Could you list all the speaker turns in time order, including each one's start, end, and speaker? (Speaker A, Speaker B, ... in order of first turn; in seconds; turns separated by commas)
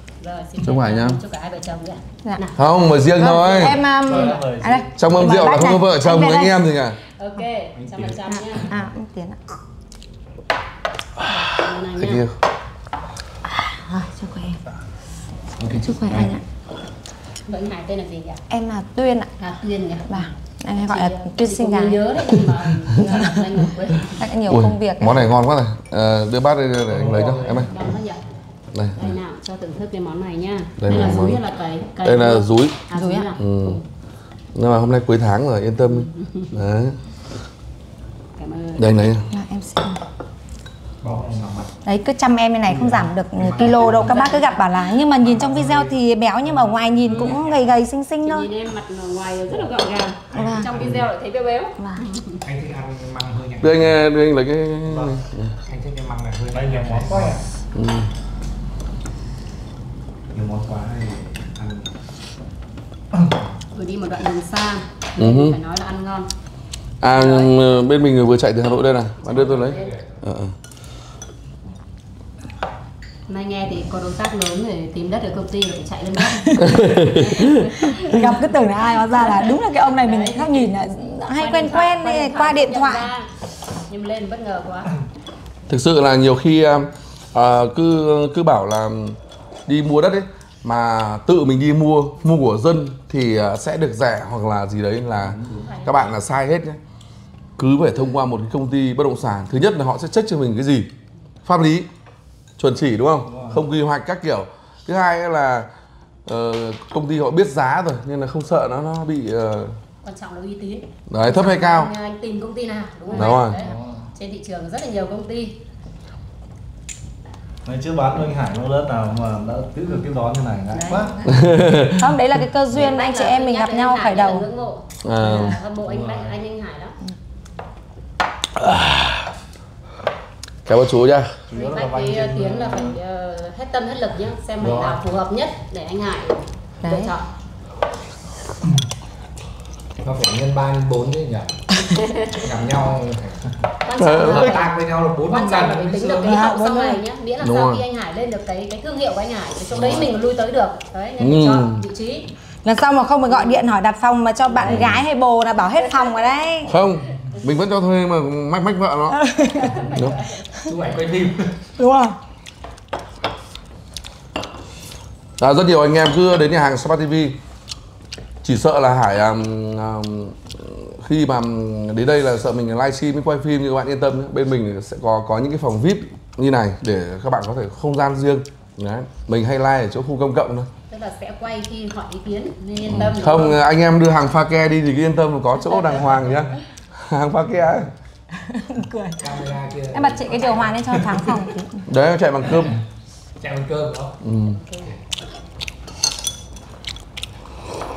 Speaker A: 0.2-2.6, Speaker B: 0.6-1.2, Speaker B: 2.5-3.8, Speaker C: 3.1-6.6, Speaker D: 4.0-4.9, Speaker B: 5.0-7.0, Speaker A: 7.1-8.7, Speaker E: 7.8-8.2, Speaker C: 8.3-9.4, Speaker A: 11.3-12.2, Speaker B: 12.0-12.3, Speaker C: 13.5-14.6, Speaker E: 15.6-16.3, Speaker C: 15.7-16.4, Speaker A: 17.4-18.4, Speaker C: 18.5-19.3, Speaker A: 19.4-20.3, Speaker C: 20.1-22.2, Speaker A: 20.8-24.2, Speaker C: 23.0-23.5, Speaker C: 24.2-25.3, Speaker B: 24.5-27.7, Speaker E: 26.9-27.6, Speaker A: 27.6-28.2, Speaker B: 28.7-29.2, Speaker A: 28.9-33.8, Speaker B: 30.8-31.4, Speaker B: 32.0-32.8, Speaker C: 32.9-33.3, Speaker B: 33.4-33.8, Speaker B: 34.5-37.0, Speaker A: 35.9-36.5, Speaker A: 38.4-38.9, Speaker B: 38.8-39.3, Speaker C: 39.3-40.0, Speaker E: 41.0-41.7, Speaker D: 41.0-41.5, Speaker C: 41.8-48.5, Speaker E: 43.4-44.0, Speaker A: 43.8-44.7, Speaker E: 45.3-45.9, Speaker E: 47.1-47.6, Speaker A: 48.2-52.4, Speaker C: 50.3-50.8, Speaker E: 50.7-51.0, Speaker C: 51.8-52.0, Speaker E: 52.4-53.9, Speaker B: 53.6-55.5, Speaker D: 54.9-55.1, Speaker E: 55.7-57.4, Speaker D: 56.5-57.4, Speaker B: 57.7-58.1, Speaker E: 60.3-61.9, Speaker A: 63.7-66.3, Speaker B: 65.2-65.6, Speaker B: 67.0-70.5, Speaker A: 67.1-67.5, Speaker A: 69.2-70.0, Speaker E: 69.5-70.1, Speaker A: 73.3-80.7, Speaker B: 76.6-77.7, Speaker C: 77.9-83.1, Speaker A: 81.3-83.3, Speaker A: 83.9-84.9, Speaker B: 85.7-96.8, Speaker A: 95.5-96.1, Speaker B: 97.6-100.9, Speaker B: 101.5-101.9, Speaker B: 102.6-105.7, Speaker D: 103.3-103.6, Speaker B: 106.2-109.8, Speaker A: 110.0-115.6, Speaker B: 111.1-111.9, Speaker B: 113.1-113.6, Speaker D: 113.6-114.1, Speaker D: 117.6-121.9, Speaker A: 120.7-121.2, Speaker B: 121.3-122.0, Speaker C: 122.0-124.5, Speaker A: 122.7-127.0, Speaker B: 125.0-125.6, Speaker E: 125.9-126.3, Speaker B: 128.6-129.2, Speaker B: 130.7-131.4, Speaker D: 131.5-133.0, Speaker A: 131.5-137.3, Speaker E: 134.6-135.0, Speaker C: 136.8-137.1, Speaker E: 140.0-141.5, Speaker A: 141.9-142.4, Speaker E: 142.4-143.4, Speaker A: 143.8-144.7, Speaker B: 144.0-144.6, Speaker E: 144.3-146.4, Speaker A: 145.2-152.3, Speaker C: 146.2-147.0, Speaker B: 147.4-147.8, Speaker E: 149.7-150.1, Speaker B: 151.2-151.8, Speaker C: 152.6-156.7, Speaker A: 153.3-153.6, Speaker B: 154.6-155.0, Speaker A: 155.6-157.5, Speaker B: 156.7-159.2, Speaker C: 159.1-159.7, Speaker A: 159.4-160.5, Speaker E: 160.7-161.6, Speaker C: 161.8-162.2, Speaker B: 165.4-167.4, Speaker B: 168.4-180.7, Speaker A: 180.9-183.6, Speaker B: 182.9-187.9, Speaker A: 185.6-186.5, Speaker C: 188.3-189.4, Speaker E: 189.2-191.4, Speaker C: 189.9-191.9, Speaker B: 191.9-192.8, Speaker E: 192.5-192.8, Speaker E: 193.4-194.2, Speaker B: 194.2-194.6, Speaker A: 194.5-194.9